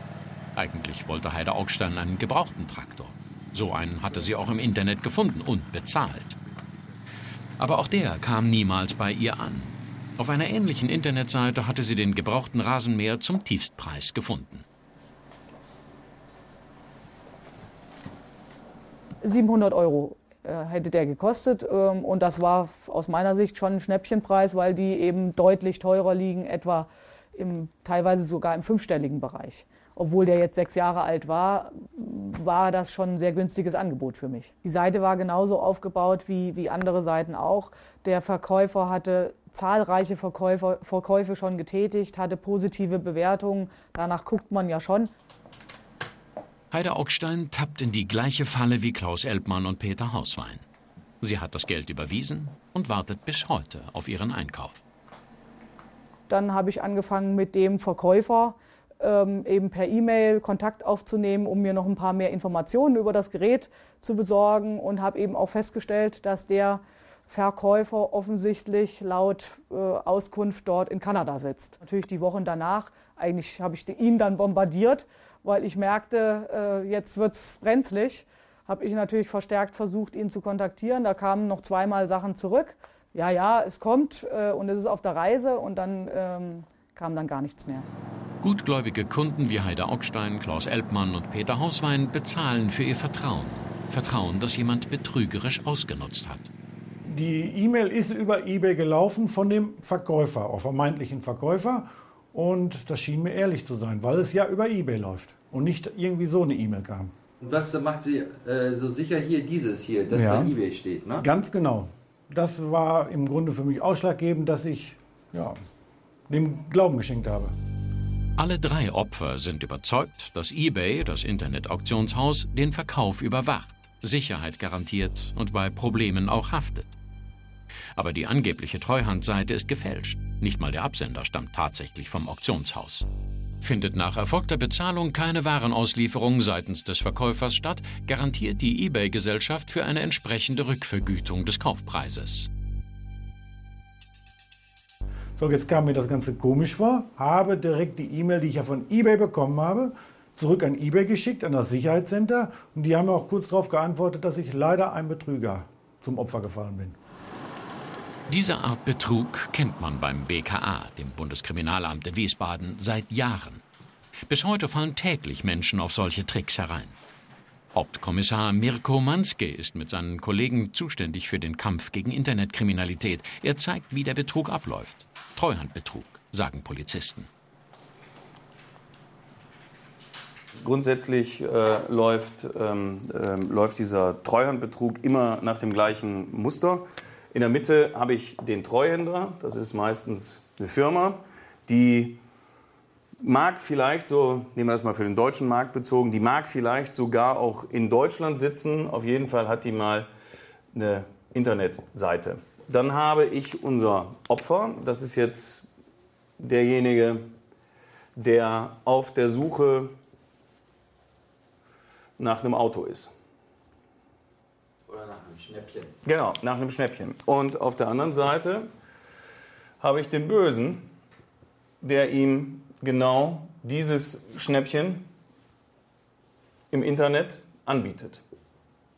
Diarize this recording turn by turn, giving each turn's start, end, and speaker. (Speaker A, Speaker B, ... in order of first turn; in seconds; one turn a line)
Speaker A: 0.6-6.4
Speaker A: 7.6-14.7
Speaker B: 19.2-45.1
Speaker A: 46.7-50.6
Speaker A: 51.2-54.8
Speaker B: 56.3-87.9
Speaker A: 88.4-96.5
Speaker C: 97.0-107.1
Speaker D: 107.4-111.2
Speaker C: 110.1-110.5
Speaker C: 111.2-115.6
Speaker C: 116.3-117.5
Speaker A: 118.4-127.0
Speaker A: 128.0-133.1
Speaker A: 133.6-142.5
Speaker C: 145.4-157.0
Speaker A: 158.3-163.6
Speaker A: 164.3-167.0
Speaker A: 167.7-177.3
Speaker E: 180.6-192.2
Speaker E: 193.2-200.1
Speaker E: 200.7-205.7
Speaker E: 206.4-207.3
Speaker E: 208.2-209.9
Speaker E: 212.2-213.1
Speaker D: 214.9-215.9
Speaker E: 216.1-218.7
Speaker E: 219.8-220.9
Speaker E: 221.8-225.1
Speaker E: 226.7-228.2